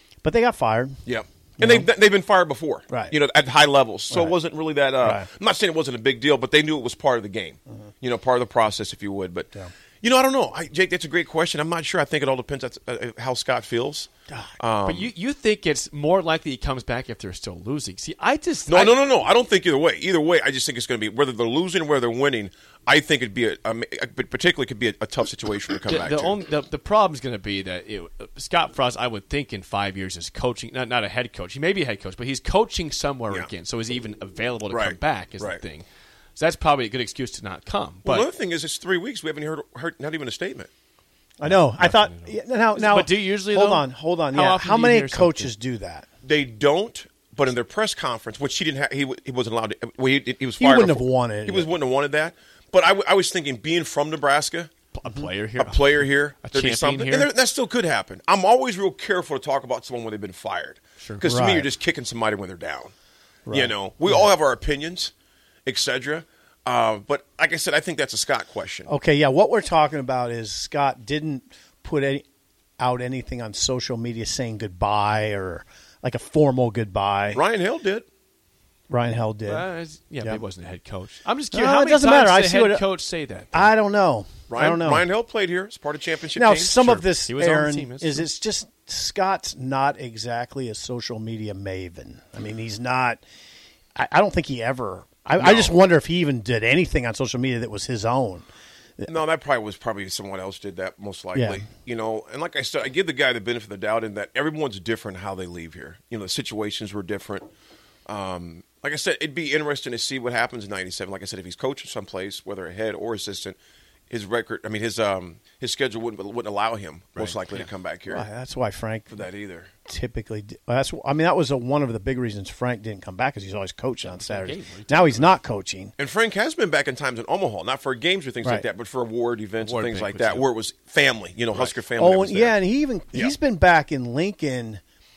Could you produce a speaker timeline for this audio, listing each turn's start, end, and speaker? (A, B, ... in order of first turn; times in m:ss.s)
0:00.2-0:01.0 A
0:01.0-0:15.1 B
0:01.6-0:01.9 A
0:02.9-0:03.1 A
0:04.1-0:04.3 A
0:05.0-0:05.3 A
0:14.3-0:14.6 A
0:14.8-0:19.0 C
0:18.7-0:26.4 B
0:25.8-0:38.3 C
0:34.7-0:35.6 B
0:38.0-0:40.7 B
0:41.4-0:46.1 A
0:41.4-0:45.5 C
0:46.2-0:54.7 B
0:50.6-0:51.7 A
0:54.9-0:57.3 C
0:55.6-1:02.9 B
1:01.2-1:01.7 A
1:03.5-1:04.3 A
1:03.5-1:05.1 B
1:05.6-1:08.9 B
1:08.9-1:12.2 A
1:12.8-1:17.4 A
1:17.3-1:18.1 B
1:18.9-1:19.7 A
1:19.4-1:23.7 C
1:21.5-1:22.8 A
1:23.5-1:25.0 A
1:24.5-1:27.1 B
1:26.4-1:33.2 A
1:27.2-1:28.3 C
1:34.0-1:38.5 A
1:35.4-1:35.8 B
1:39.1-1:47.5 B
1:41.3-1:41.6 A
1:48.0-1:53.6 B
1:54.1-1:58.2 B
1:57.1-1:57.7 C
1:58.1-1:59.3 A
1:59.1-1:59.7 B
1:59.8-2:05.9 A
2:04.0-2:05.3 C
2:06.0-2:12.6 B
2:09.6-2:10.5 C
2:11.5-2:14.8 A